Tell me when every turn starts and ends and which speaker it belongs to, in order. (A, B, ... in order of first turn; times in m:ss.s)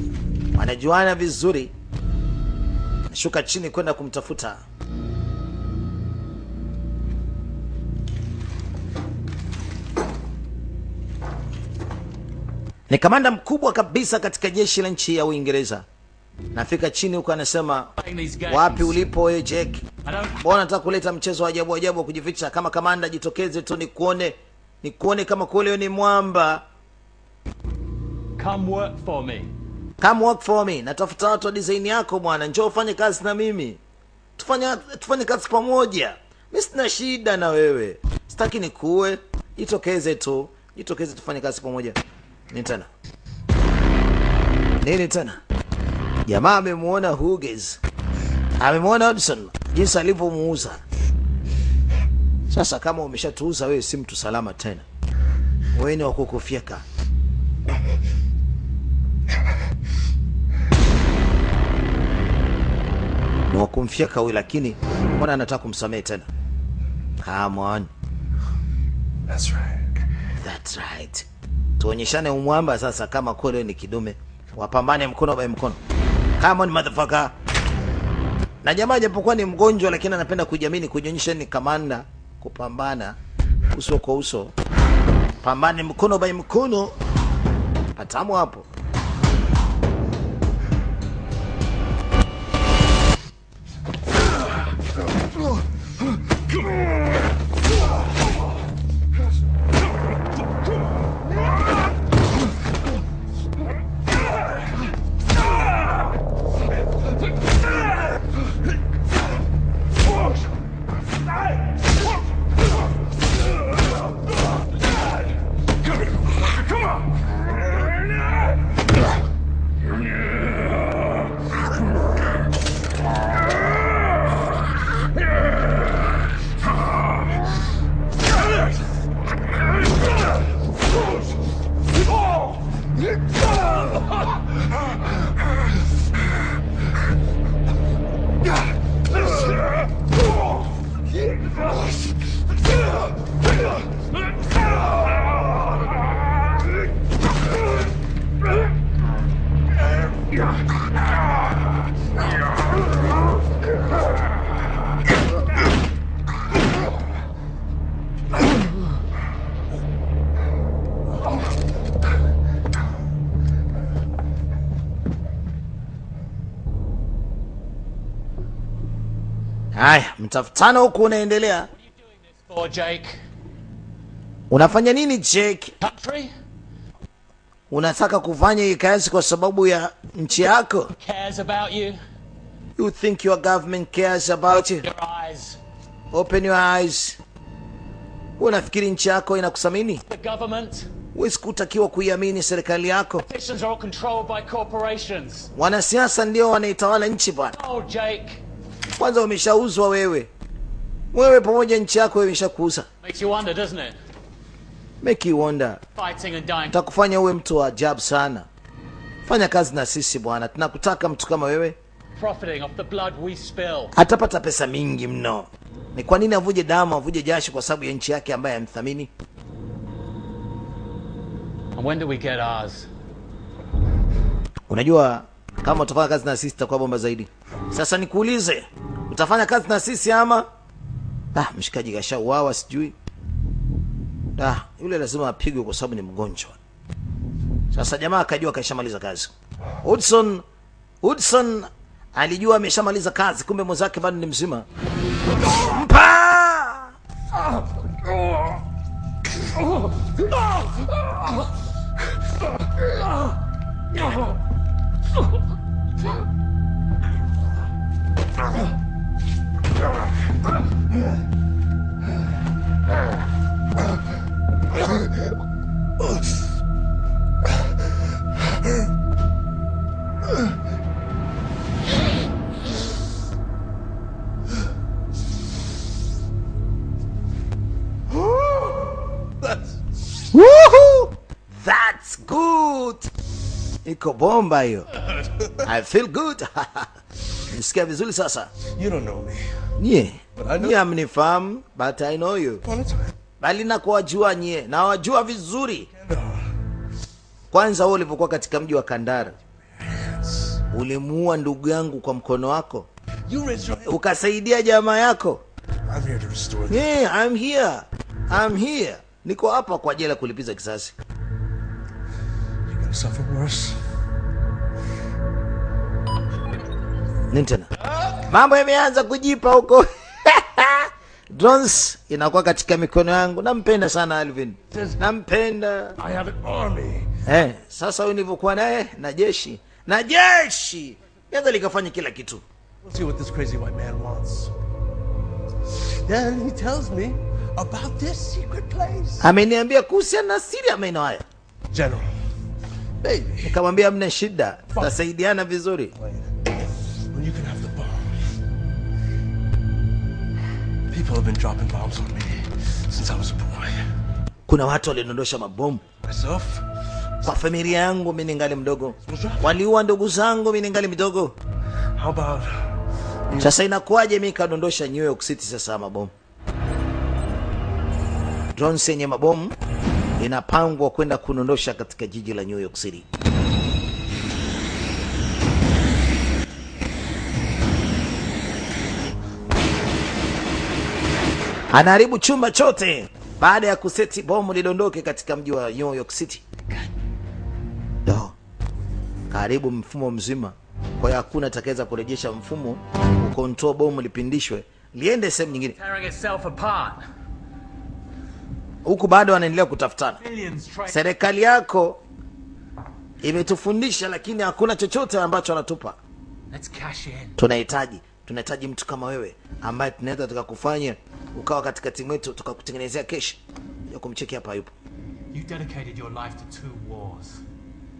0:00.5-0:01.7 A
0:03.1-0:04.6 A
0:12.9-0:15.8 A
0:16.5-0:17.9 A
0:18.0-0:19.1 B
0:18.5-0:19.8 A
0:20.0-0:20.5 B
0:20.4-0:26.6 A
0:28.4-0:29.5 B
0:30.0-0:33.8 A
0:34.4-0:42.0 A
0:42.5-0:42.9 A
0:44.8-0:45.4 A
0:46.2-0:47.8 A
0:48.6-0:50.8 A
0:52.5-0:54.8 A
0:55.8-0:56.8 A
1:03.5-1:06.3 A
1:07.2-1:07.9 A
1:09.3-1:09.8 C
1:10.4-1:11.2 A
1:11.8-1:15.8 A
1:16.4-1:17.3 A
1:18.6-1:23.2 A
1:23.7-1:24.5 A
1:25.4-1:26.9 A
1:28.0-1:28.6 A
2:49.7-2:51.7 A
2:51.7-2:53.2 B
2:54.5-2:55.7 A
2:55.8-2:56.3 B
2:57.7-3:00.9 A
3:01.0-3:02.0 B
3:02.8-3:04.8 A
3:04.6-3:05.6 B
3:06.1-3:07.2 A
3:08.4-3:10.0 A
3:10.1-3:10.9 B
3:11.1-3:13.2 A
3:13.3-3:15.5 B
3:15.5-3:17.6 A
3:17.5-3:18.4 B
3:19.0-3:20.3 A
3:21.1-3:22.9 A
3:23.0-3:24.0 B
3:25.0-3:25.8 A
3:26.0-3:26.8 B
3:26.7-3:28.5 A
3:29.2-3:31.8 A
3:32.2-3:33.9 B
3:33.9-3:39.1 A
3:41.7-3:42.9 B
3:44.7-3:50.5 A
3:51.3-3:52.9 A
3:54.4-3:56.6 A
3:57.7-3:59.3 A
3:59.8-4:00.4 A
4:01.0-4:04.6 A
4:05.5-4:06.9 A
4:39.4-4:39.7 C
4:40.3-4:43.1 A
4:43.8-4:44.9 A
4:45.6-4:46.9 A
4:47.5-4:48.5 A
4:48.8-4:49.4 C
4:49.8-4:52.6 A
4:50.4-4:50.8 C
4:52.6-4:53.1 C
4:53.4-4:55.9 A
4:55.9-4:56.4 C
4:57.5-4:59.3 A
4:59.9-5:00.6 C
5:00.7-5:02.9 A
5:03.3-5:04.0 C
5:03.8-5:05.4 A
5:05.9-5:06.9 C
5:06.7-5:10.9 A
5:12.7-5:13.8 C
5:17.3-5:26.0 A
5:24.7-5:25.0 C
5:26.0-5:27.1 C
5:27.2-5:32.4 A
5:32.8-5:34.5 C
5:36.0-5:39.3 C
5:39.2-5:41.2 A
5:41.7-5:42.1 C
5:43.0-5:43.5 C
5:43.4-5:45.9 A
5:46.0-5:46.2 C
5:47.1-5:48.1 C
5:50.9-5:53.8 C
5:54.5-5:55.8 A
5:56.0-5:56.6 C
5:57.2-6:01.3 A
5:59.1-5:59.5 C
6:02.0-6:02.5 C
6:03.4-6:06.1 A
6:08.6-6:09.5 A
6:10.2-6:13.0 A
6:21.7-6:26.4 A
6:28.0-6:28.3 A
6:29.3-6:35.8 A
6:35.8-6:37.0 B
6:38.8-6:40.2 A
6:40.2-6:41.0 B
6:40.9-6:42.0 A
6:43.2-6:46.0 A
6:46.5-6:47.4 B
6:47.4-6:54.7 A
6:55.3-6:57.4 B